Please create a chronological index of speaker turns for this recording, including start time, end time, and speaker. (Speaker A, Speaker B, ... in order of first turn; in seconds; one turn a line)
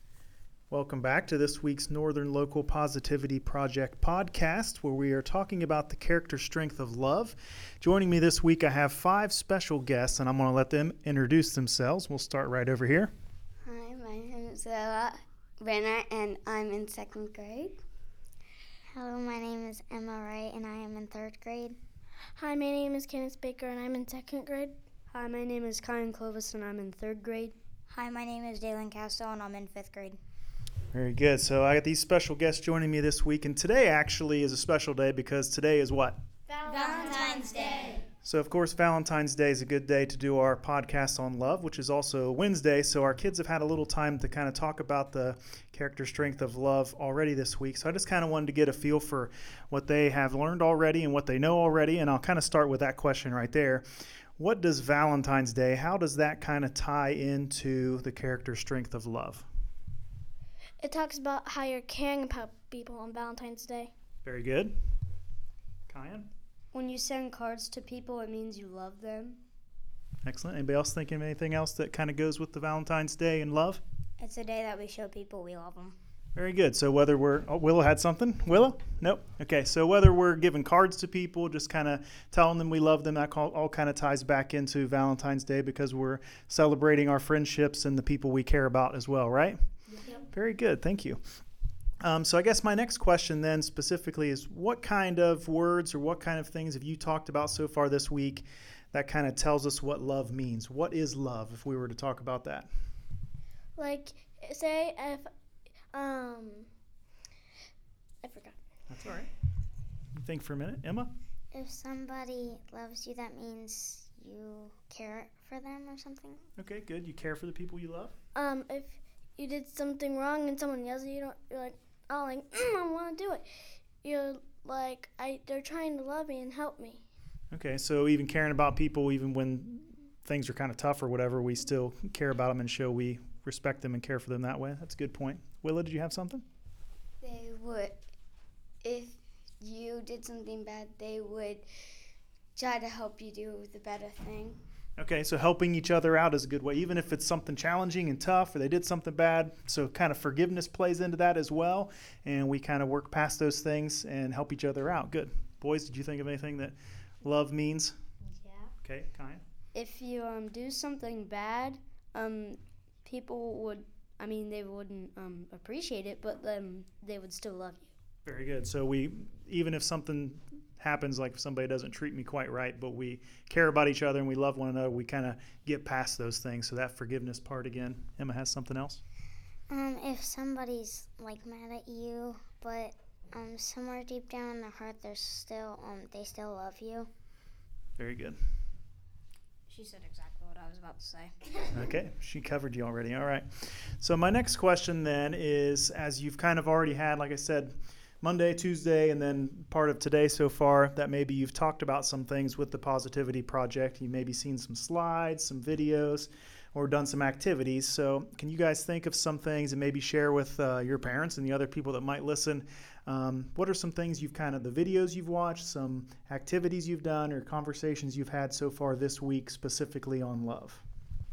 Speaker A: 0.7-13.1
Speaker B: 13.6-17.8
Speaker C: 18.9-21.8
Speaker D: 22.4-24.8
Speaker E: 25.1-27.6
Speaker F: 27.9-30.2
Speaker A: 30.9-36.2
Speaker D: 36.5-37.6
Speaker F: 36.7-38.0
Speaker B: 37.7-38.0
Speaker A: 38.2-53.9
Speaker A: 54.4-59.5
Speaker D: 60.8-63.9
Speaker A: 64.2-64.8
Speaker A: 65.9-66.3
Speaker E: 66.7-69.4
Speaker A: 70.2-73.8
Speaker F: 74.2-76.0
Speaker A: 76.3-89.6
Speaker E: 90.0-90.2
Speaker A: 90.3-91.2
Speaker A: 92.0-102.7
Speaker D: 103.8-105.3
Speaker D: 105.9-106.7
Speaker D: 108.2-108.6
Speaker A: 108.9-109.3
Speaker A: 110.2-111.1
Speaker C: 111.5-116.4
Speaker A: 116.6-118.1
Speaker D: 118.3-127.0
Speaker A: 127.5-136.4
Speaker B: 137.2-138.0
Speaker B: 138.8-141.7
Speaker B: 142.6-144.6
Speaker A: 145.0-157.9
Speaker E: 158.3-158.7
Speaker A: 158.8-159.4
Speaker E: 159.7-167.9
Speaker A: 168.3-179.0
Speaker C: 179.7-187.1
Speaker A: 188.0-188.4
Speaker F: 189.7-191.6
Speaker A: 191.7-220.8